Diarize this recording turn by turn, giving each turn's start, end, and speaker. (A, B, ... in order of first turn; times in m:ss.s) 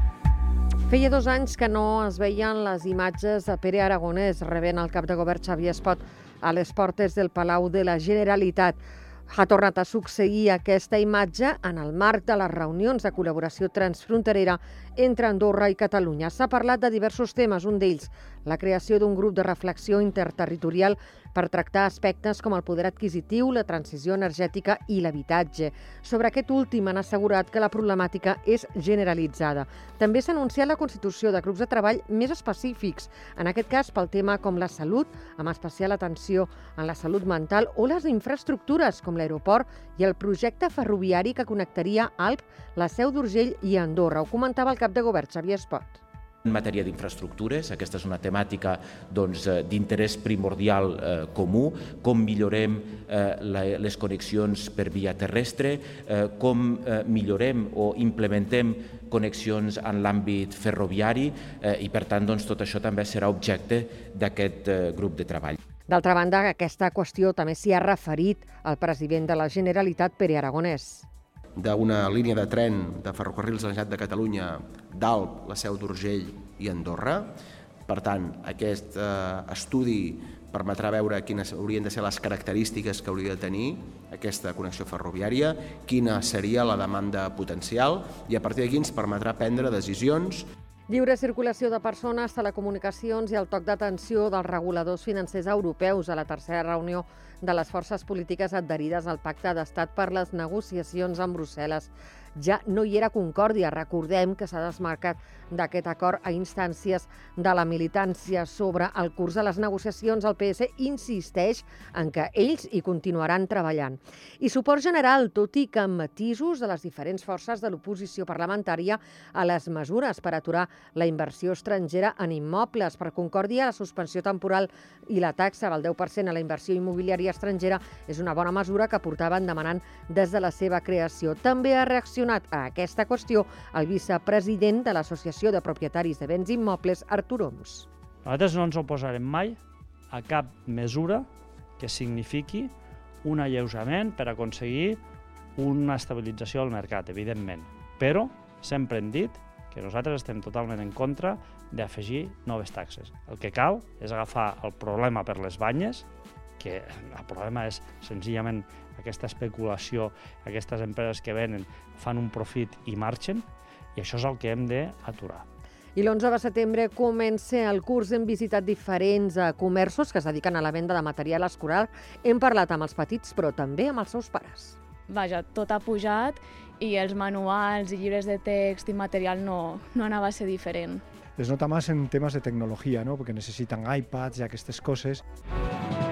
0:00.9-0:46.0 A
0:46.5-1:05.6 B
1:05.9-1:11.1 A
1:11.6-1:17.3 C
1:17.9-1:30.4 C
1:30.9-2:17.9 A
2:18.2-2:19.6 D
2:20.1-2:21.3 D
2:21.8-2:22.7 D
2:23.2-2:25.0 D
2:25.6-2:36.0 D
2:36.6-2:45.4 D
2:45.9-2:54.8 A
2:55.1-3:01.0 E
3:01.4-3:05.2 F